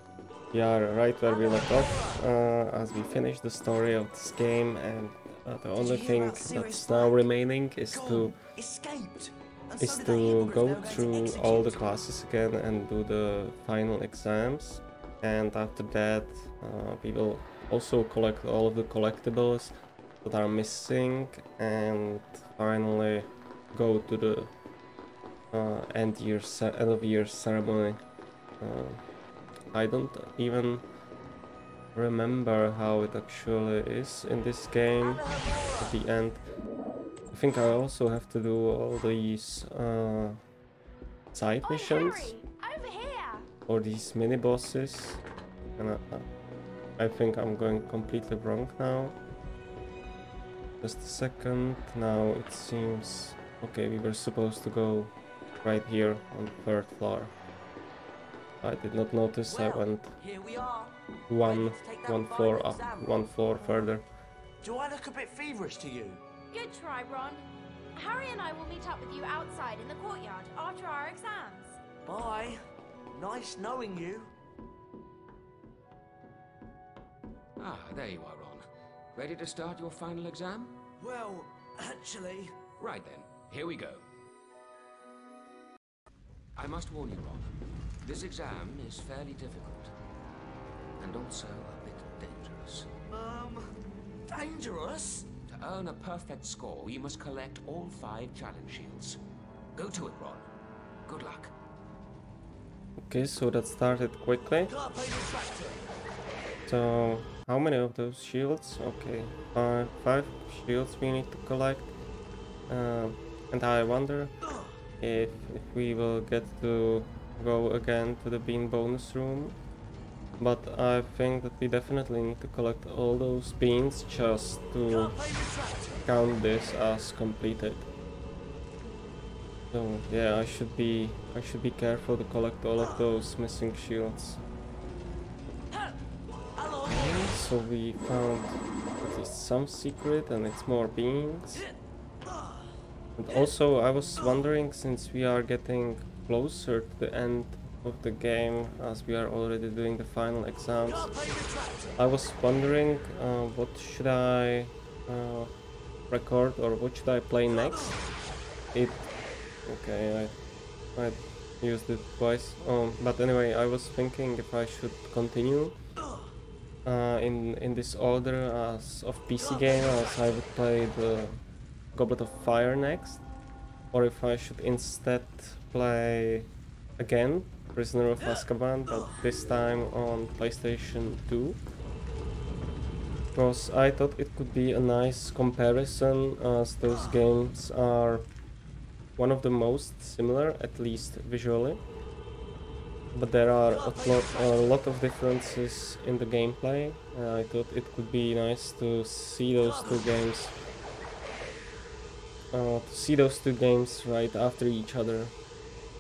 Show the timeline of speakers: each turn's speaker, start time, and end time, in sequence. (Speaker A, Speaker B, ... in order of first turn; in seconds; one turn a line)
Speaker A: 0.5-8.4
Speaker B: 1.3-2.0
Speaker B: 5.8-7.2
Speaker B: 7.9-11.9
Speaker A: 9.8-24.5
Speaker A: 25.5-28.0
Speaker A: 28.6-29.0
Speaker A: 29.7-30.8
Speaker A: 31.9-35.2
Speaker B: 35.0-35.9
Speaker A: 35.8-36.4
Speaker A: 37.3-40.4
Speaker A: 41.3-42.4
Speaker C: 41.6-43.5
Speaker A: 43.7-45.2
Speaker A: 45.8-46.3
Speaker A: 47.0-49.1
Speaker A: 50.8-57.3
Speaker A: 58.6-60.1
Speaker B: 59.4-63.9
Speaker A: 61.3-64.0
Speaker B: 64.6-66.2
Speaker C: 66.5-67.4
Speaker C: 68.0-71.8
Speaker B: 72.0-72.6
Speaker B: 73.1-74.3
Speaker D: 77.6-80.7
Speaker B: 81.0-82.7
Speaker D: 82.8-84.0
Speaker D: 86.5-89.9
Speaker D: 91.0-92.9
Speaker B: 93.1-93.7
Speaker B: 94.2-95.3
Speaker D: 95.5-99.2
Speaker D: 99.8-100.5
Speaker D: 101.0-101.5
Speaker A: 103.0-104.7
Speaker B: 104.7-105.8
Speaker A: 106.7-111.9
Speaker A: 112.7-114.3
Speaker A: 115.0-119.6
Speaker A: 120.4-125.2
Speaker B: 124.9-126.0
Speaker A: 126.0-127.9
Speaker A: 129.7-134.4
Speaker A: 136.8-141.7
Speaker A: 143.2-151.1
Speaker B: 150.9-151.9
Speaker A: 152.0-155.5
Speaker A: 156.1-157.9
Speaker A: 158.7-159.1
Speaker A: 159.7-160.3
Speaker A: 160.9-165.8
Speaker A: 166.8-171.4
Speaker A: 171.9-173.2
Speaker A: 173.9-181.6
Speaker A: 183.3-188.3
Speaker A: 189.2-191.8
Speaker A: 193.1-200.6
Speaker A: 202.5-205.3